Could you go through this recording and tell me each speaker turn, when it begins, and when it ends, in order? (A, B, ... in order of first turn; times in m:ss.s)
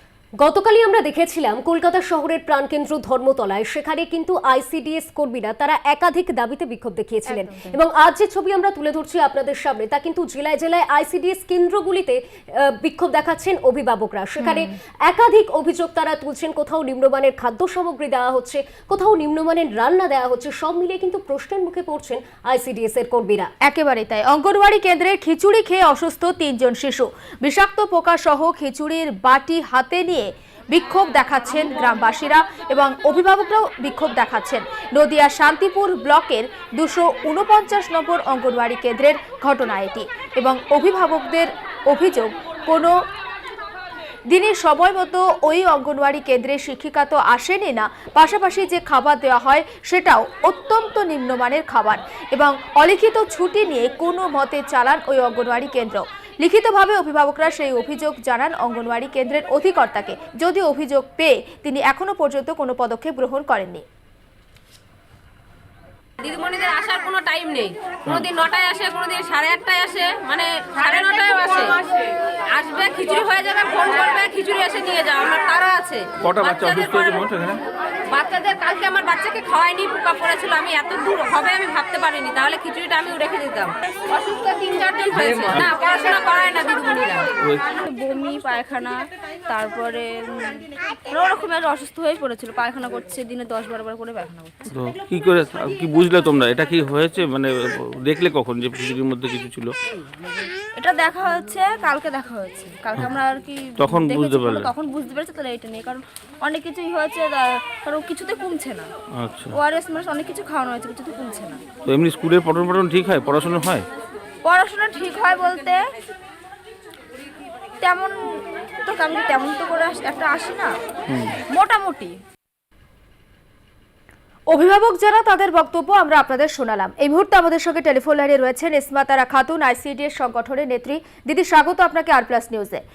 0:00.4-0:23.5 A
0:07.3-0:07.8 B
0:14.4-0:14.7 B
0:23.6-0:42.9 B
0:44.3-1:03.8 B
1:06.2-1:11.8 C
1:08.0-1:08.3 D
1:09.6-1:09.9 E
1:12.5-1:17.3 C
1:16.2-1:17.6 D
1:18.1-1:27.2 C
1:24.4-1:25.4 E
1:25.1-1:25.7 D
1:27.7-1:34.6 E
1:34.7-1:39.7 D
1:40.8-1:48.9 E
1:43.8-1:44.7 D
1:49.2-1:49.6 D
1:49.5-1:51.6 E
1:51.8-1:53.8 D
1:54.4-1:55.8 E
1:57.8-1:58.1 E
1:58.8-2:00.7 E
2:01.1-2:01.4 D
2:01.5-2:02.1 E
2:04.5-2:12.8 B